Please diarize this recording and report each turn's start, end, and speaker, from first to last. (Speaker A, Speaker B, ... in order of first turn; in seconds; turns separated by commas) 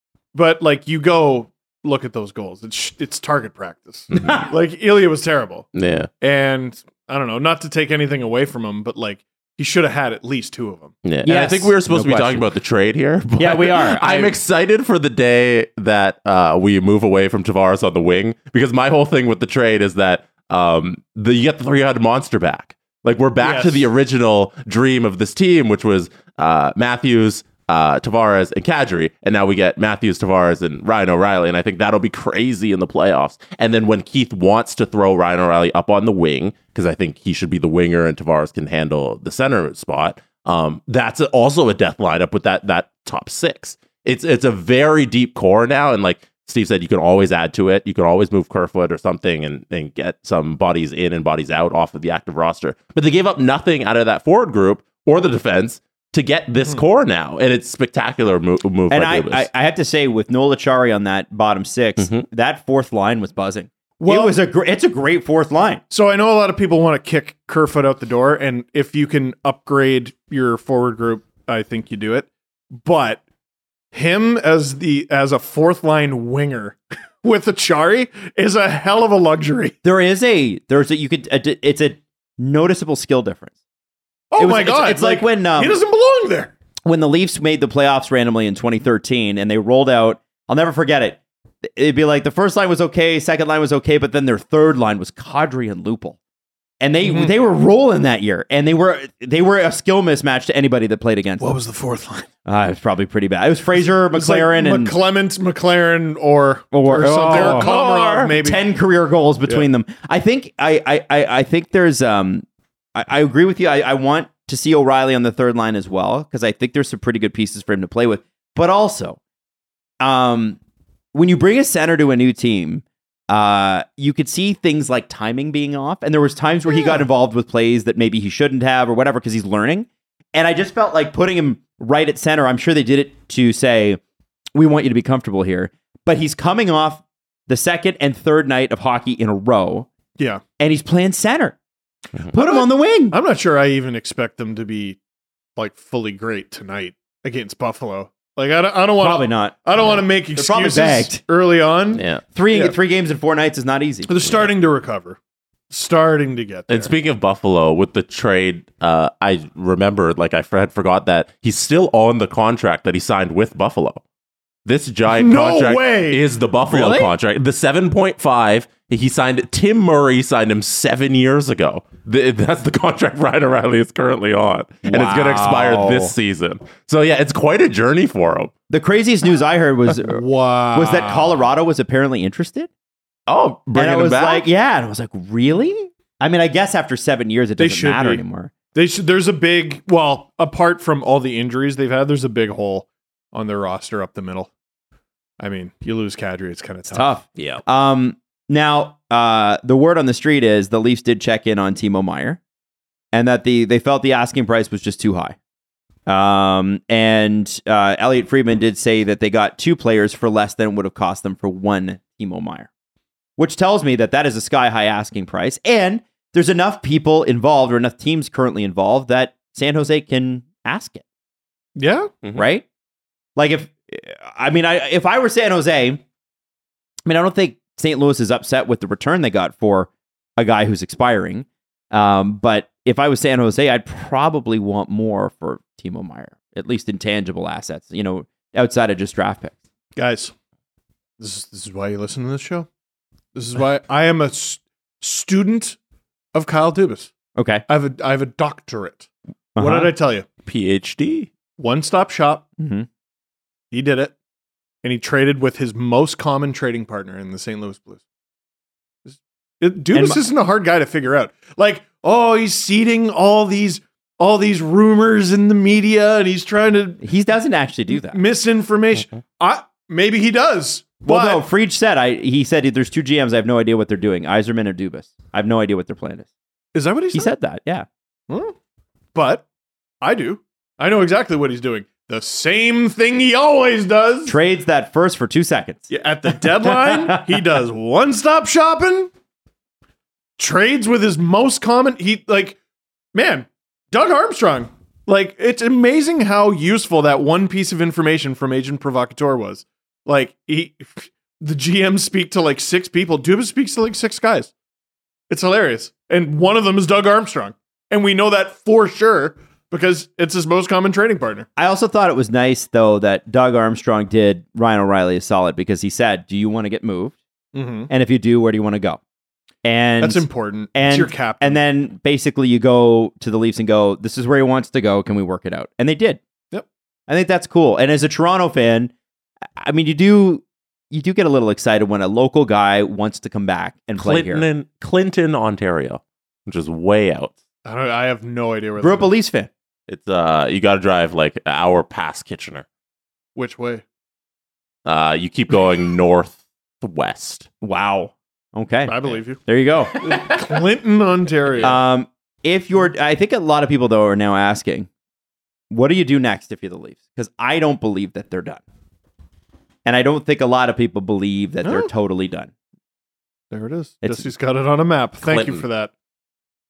Speaker A: 0.3-5.7, Speaker B: 4.1-4.4, Speaker B: 5.7-6.1, Speaker A: 6.2-10.9, Speaker B: 11.0-59.5, Speaker C: 11.2-12.5, Speaker C: 13.4-14.3, Speaker A: 23.4-23.9, Speaker C: 58.9-65.8, Speaker B: 62.0-62.2, Speaker A: 64.0-64.4, Speaker A: 65.9-73.2, Speaker A: 73.9-79.8, Speaker C: 79.8-83.5, Speaker A: 84.3-86.5, Speaker C: 84.4-85.8, Speaker C: 86.8-91.2, Speaker C: 91.7-96.2, Speaker C: 96.8-101.5, Speaker A: 97.0-97.3, Speaker A: 101.4-102.3, Speaker C: 102.4-104.9, Speaker A: 103.8-108.6, Speaker C: 106.7-107.7, Speaker B: 107.2-108.3, Speaker C: 108.4-119.2, Speaker C: 120.0-120.6, Speaker C: 121.1-134.0, Speaker A: 126.7-127.0, Speaker C: 134.5-139.9, Speaker C: 140.6-141.6, Speaker C: 142.3-143.2, Speaker A: 142.3-145.0, Speaker A: 145.6-152.7, Speaker C: 149.0-149.6, Speaker C: 150.3-151.2, Speaker B: 151.9-152.2, Speaker C: 152.3-154.1, Speaker A: 154.1-155.2, Speaker A: 155.7-156.9, Speaker B: 156.7-164.0, Speaker B: 164.7-178.5, Speaker A: 165.1-166.2, Speaker C: 166.7-167.1, Speaker C: 174.8-176.1, Speaker C: 178.7-180.2, Speaker A: 179.9-181.4, Speaker C: 180.7-182.7, Speaker B: 183.3-184.5, Speaker C: 183.7-188.5, Speaker A: 187.6-194.5, Speaker A: 195.4-197.1, Speaker C: 196.9-202.4, Speaker C: 203.1-205.3, Speaker C: 206.1-212.7, Speaker C: 213.4-221.0, Speaker A: 221.8-222.1, Speaker C: 222.3-222.7, Speaker C: 223.3-226.0, Speaker C: 227.1-239.5, Speaker A: 239.9-240.3, Speaker A: 241.2-242.7, Speaker A: 243.3-245.8, Speaker A: 246.3-247.1, Speaker C: 247.3-247.6, Speaker A: 247.7-250.2, Speaker C: 249.5-249.9, Speaker B: 250.4-251.3, Speaker A: 251.6-252.4, Speaker C: 252.6-252.9, Speaker A: 253.7-254.1, Speaker A: 254.8-258.0, Speaker A: 259.1-267.0, Speaker C: 259.9-260.2, Speaker C: 267.0-268.2, Speaker A: 267.9-271.4, Speaker C: 271.0-276.3, Speaker A: 276.7-277.3, Speaker C: 277.1-277.9, Speaker A: 278.3-278.5, Speaker A: 279.1-279.4, Speaker A: 280.0-284.4, Speaker C: 284.2-287.4, Speaker A: 285.9-289.1, Speaker A: 290.4-292.6, Speaker A: 293.1-304.5, Speaker A: 305.3-311.5, Speaker C: 311.6-317.1, Speaker A: 317.5-317.9, Speaker C: 317.9-319.0, Speaker C: 319.6-326.2, Speaker A: 320.0-321.6, Speaker C: 327.1-328.9, Speaker C: 329.6-334.4, Speaker B: 334.0-337.4, Speaker A: 337.6-339.1, Speaker C: 338.8-339.5, Speaker B: 339.9-342.6, Speaker A: 343.4-343.8, Speaker B: 344.9-347.5, Speaker C: 347.6-350.0, Speaker A: 348.9-349.4, Speaker B: 350.0-350.4, Speaker A: 350.0-351.8, Speaker C: 351.6-354.9, Speaker C: 355.7-358.6, Speaker C: 359.8-362.5, Speaker A: 361.6-361.9, Speaker A: 363.5-365.9, Speaker B: 365.3-365.6